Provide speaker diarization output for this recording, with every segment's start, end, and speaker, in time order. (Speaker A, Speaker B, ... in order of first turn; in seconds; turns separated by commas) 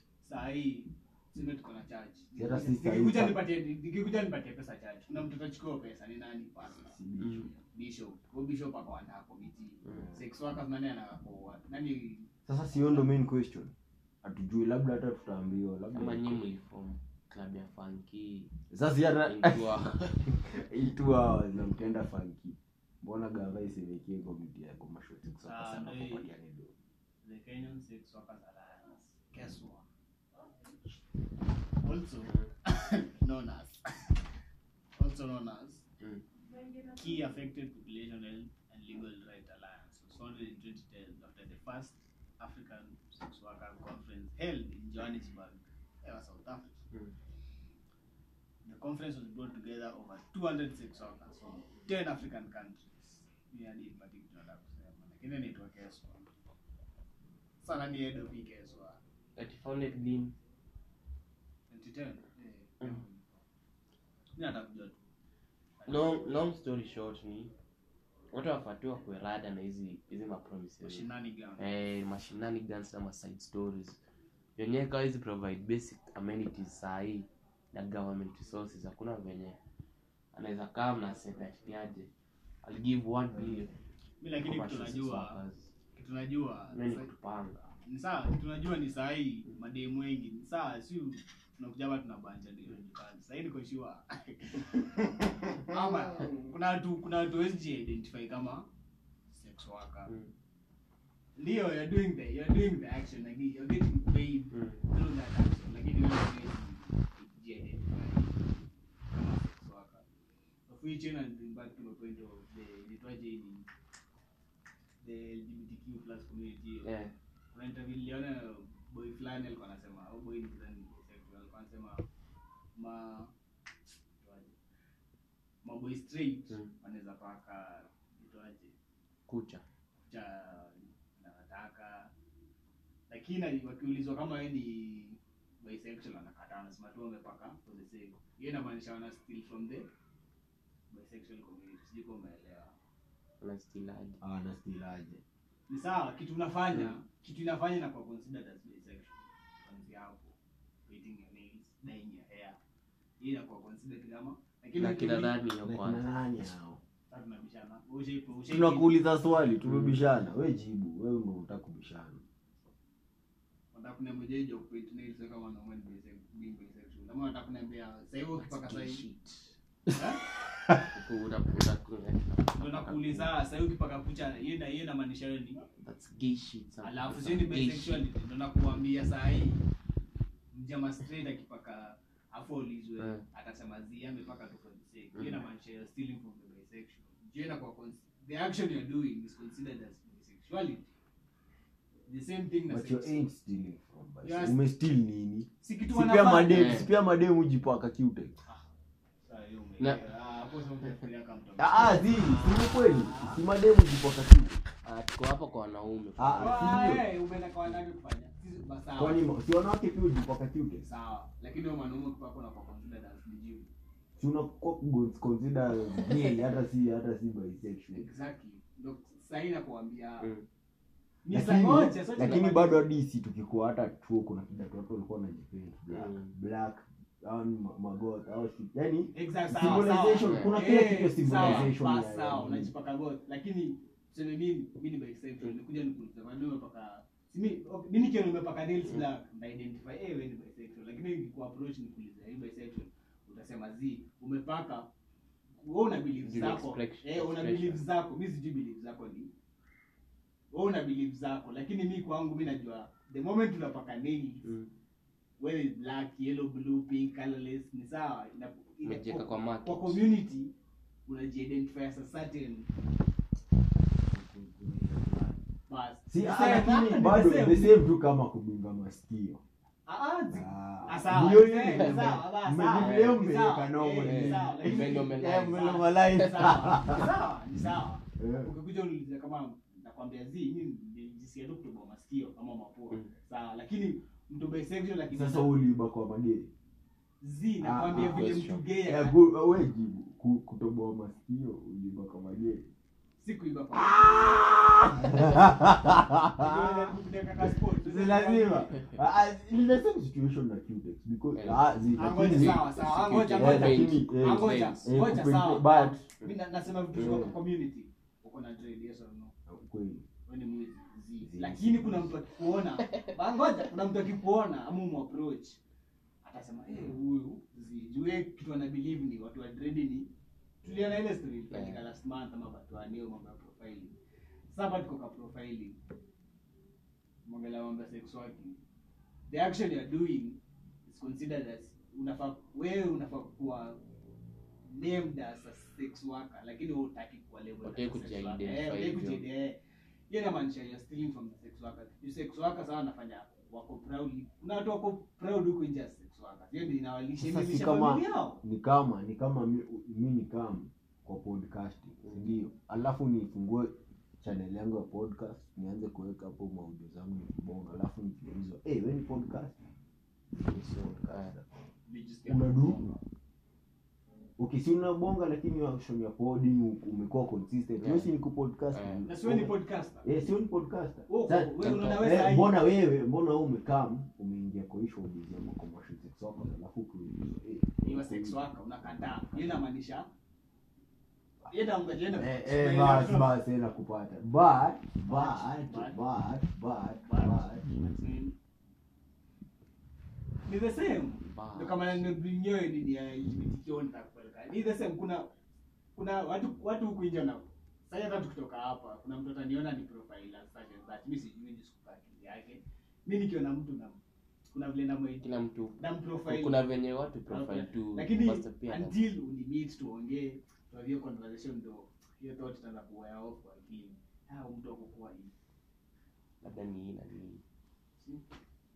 Speaker A: 0.2-7.0, Speaker B: 2.4-3.4, Speaker B: 6.8-7.5, Speaker C: 7.2-7.5, Speaker A: 7.5-13.1, Speaker C: 9.8-10.1, Speaker B: 12.5-16.4, Speaker C: 15.9-18.5, Speaker B: 18.7-26.7, Speaker C: 19.2-20.3, Speaker A: 25.4-26.3, Speaker A: 27.2-29.9, Speaker A: 31.8-34.2, Speaker A: 35.0-35.9, Speaker A: 36.9-46.7, Speaker A: 48.6-56.3, Speaker A: 57.6-59.0, Speaker C: 59.4-60.4, Speaker A: 61.7-63.3, Speaker A: 64.3-65.0, Speaker A: 65.8-66.4, Speaker C: 65.9-67.5, Speaker C: 68.3-71.1, Speaker A: 70.8-71.7, Speaker C: 71.6-74.0, Speaker C: 74.6-79.6, Speaker C: 80.3-82.1, Speaker C: 82.6-83.7, Speaker A: 84.2-85.4, Speaker C: 84.4-85.7, Speaker A: 86.0-87.1, Speaker C: 86.7-87.7, Speaker A: 87.9-98.7, Speaker A: 99.3-100.1, Speaker A: 101.4-110.0, Speaker C: 104.5-104.8, Speaker A: 110.7-113.7, Speaker A: 115.0-116.9, Speaker C: 116.8-117.1, Speaker A: 117.5-122.0, Speaker A: 122.8-123.3, Speaker A: 124.2-124.6, Speaker A: 125.6-128.7, Speaker C: 129.3-129.6, Speaker A: 130.1-132.1, Speaker A: 133.1-139.9, Speaker A: 140.9-142.7, Speaker C: 143.4-144.2, Speaker B: 144.2-145.2, Speaker A: 145.7-150.3, Speaker A: 150.9-152.6, Speaker A: 153.2-155.4, Speaker C: 154.8-156.1, Speaker B: 155.6-156.8, Speaker A: 157.1-158.9, Speaker B: 158.5-162.2, Speaker C: 159.7-160.0, Speaker A: 163.7-169.0, Speaker C: 168.4-169.6, Speaker A: 169.9-170.2, Speaker C: 170.9-173.3, Speaker A: 172.6-175.7, Speaker C: 175.8-178.1, Speaker A: 176.8-179.6, Speaker A: 180.5-190.9, Speaker C: 183.0-183.2, Speaker C: 185.2-185.4, Speaker A: 192.1-193.2, Speaker B: 192.7-198.4, Speaker A: 194.2-194.6, Speaker A: 195.6-196.8, Speaker C: 196.5-196.9, Speaker A: 199.2-203.4, Speaker B: 201.6-204.6, Speaker C: 204.8-206.9, Speaker B: 206.2-207.0, Speaker A: 206.4-209.2, Speaker B: 209.0-210.9, Speaker A: 210.8-213.7, Speaker B: 214.2-218.1, Speaker A: 217.9-220.3, Speaker C: 220.2-220.5, Speaker A: 221.2-222.9, Speaker B: 221.3-232.7, Speaker C: 225.9-226.3, Speaker A: 229.2-244.9, Speaker C: 230.2-230.6, Speaker C: 231.4-231.7, Speaker A: 245.6-249.3, Speaker C: 246.2-247.8, Speaker A: 250.5-254.5, Speaker C: 254.4-254.7, Speaker A: 255.4-260.5, Speaker C: 258.8-260.0, Speaker A: 261.1-262.7, Speaker B: 264.1-265.4, Speaker A: 265.7-267.8, Speaker B: 266.1-269.4, Speaker A: 269.9-285.6, Speaker B: 270.3-277.1, Speaker C: 272.8-273.2, Speaker C: 274.0-276.7, Speaker B: 278.2-278.5, Speaker B: 285.1-286.5, Speaker A: 287.2-289.2, Speaker B: 287.6-288.3, Speaker C: 287.9-288.6, Speaker B: 288.9-292.7, Speaker A: 293.2-294.5, Speaker B: 293.7-302.6, Speaker A: 295.0-295.4, Speaker A: 296.4-298.9, Speaker C: 301.4-304.9, Speaker A: 301.9-309.3, Speaker B: 303.3-306.0, Speaker B: 306.9-307.3, Speaker B: 309.5-310.1, Speaker A: 310.3-315.6, Speaker B: 311.2-312.1, Speaker C: 312.8-313.1, Speaker A: 316.2-320.1, Speaker A: 320.6-324.0, Speaker C: 321.5-321.8, Speaker A: 324.5-325.8, Speaker A: 327.3-328.6, Speaker A: 329.3-333.8, Speaker A: 334.7-339.6, Speaker C: 337.6-339.2, Speaker A: 340.1-348.4, Speaker B: 347.2-359.6, Speaker B: 360.3-361.5, Speaker C: 360.4-361.3, Speaker A: 361.9-363.0, Speaker B: 362.3-362.9, Speaker B: 364.4-378.4, Speaker C: 367.8-368.1, Speaker C: 368.7-369.1, Speaker A: 369.1-370.1, Speaker A: 371.1-372.6, Speaker A: 377.8-380.1, Speaker A: 381.5-383.3, Speaker B: 382.2-387.7, Speaker A: 385.0-386.0, Speaker A: 387.1-388.4, Speaker A: 390.5-395.3, Speaker C: 391.2-392.1, Speaker A: 396.0-404.0, Speaker A: 404.5-405.2, Speaker C: 405.2-409.1, Speaker A: 405.8-406.6, Speaker A: 407.3-415.3, Speaker C: 416.4-417.4, Speaker A: 418.0-418.2